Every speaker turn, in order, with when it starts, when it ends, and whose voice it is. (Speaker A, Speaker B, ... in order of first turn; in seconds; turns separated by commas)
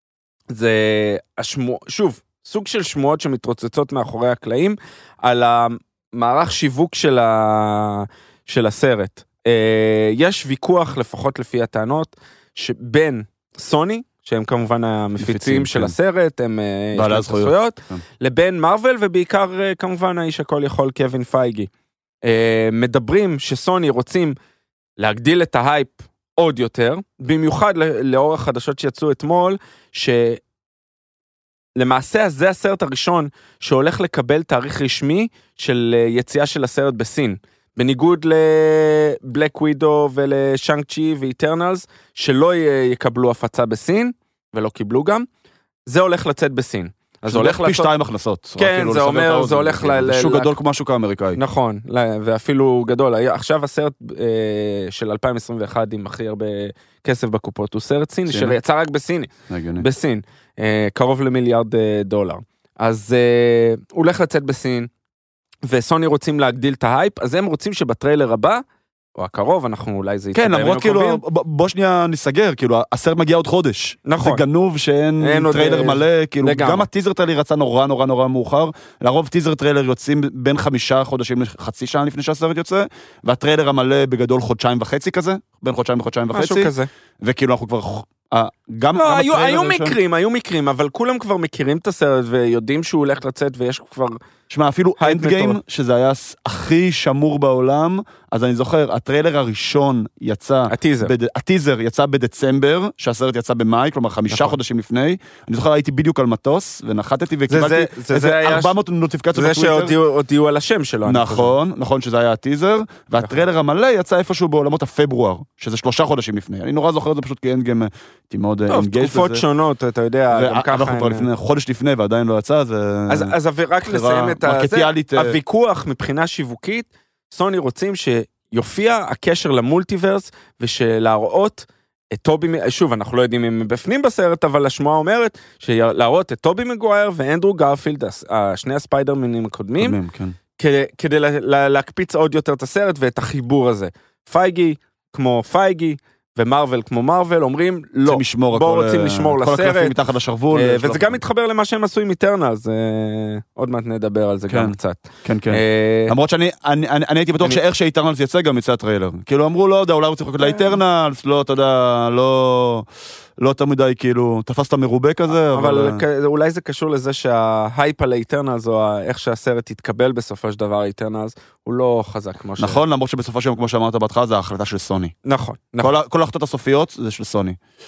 Speaker A: 0.5-21.7, Speaker B: 15.2-15.9, Speaker B: 16.9-18.0, Speaker A: 22.2-24.3, Speaker A: 25.0-30.4, Speaker A: 31.8-45.2, Speaker A: 45.9-47.9, Speaker B: 47.3-51.4, Speaker A: 48.6-50.5, Speaker A: 51.4-64.9, Speaker B: 58.3-58.6, Speaker B: 59.5-59.9, Speaker A: 65.6-68.6, Speaker A: 69.2-71.2, Speaker B: 70.3-90.0, Speaker A: 74.0-74.4, Speaker A: 75.2-76.9, Speaker A: 86.3-86.9, Speaker A: 89.0-94.2, Speaker B: 94.5-109.9, Speaker A: 95.0-95.6, Speaker A: 100.7-101.1, Speaker A: 104.3-104.6, Speaker A: 107.5-108.7, Speaker A: 109.3-111.5, Speaker B: 111.0-119.4, Speaker A: 118.7-121.3, Speaker B: 120.3-123.3, Speaker A: 123.1-140.0, Speaker B: 123.8-125.4, Speaker B: 139.8-140.4, Speaker A: 140.6-149.9, Speaker B: 148.0-151.2, Speaker A: 150.5-156.1, Speaker B: 154.5-162.8, Speaker A: 160.4-160.8, Speaker B: 163.4-166.0, Speaker A: 165.5-172.8, Speaker B: 172.6-175.1, Speaker A: 175.2-175.9, Speaker B: 175.8-177.6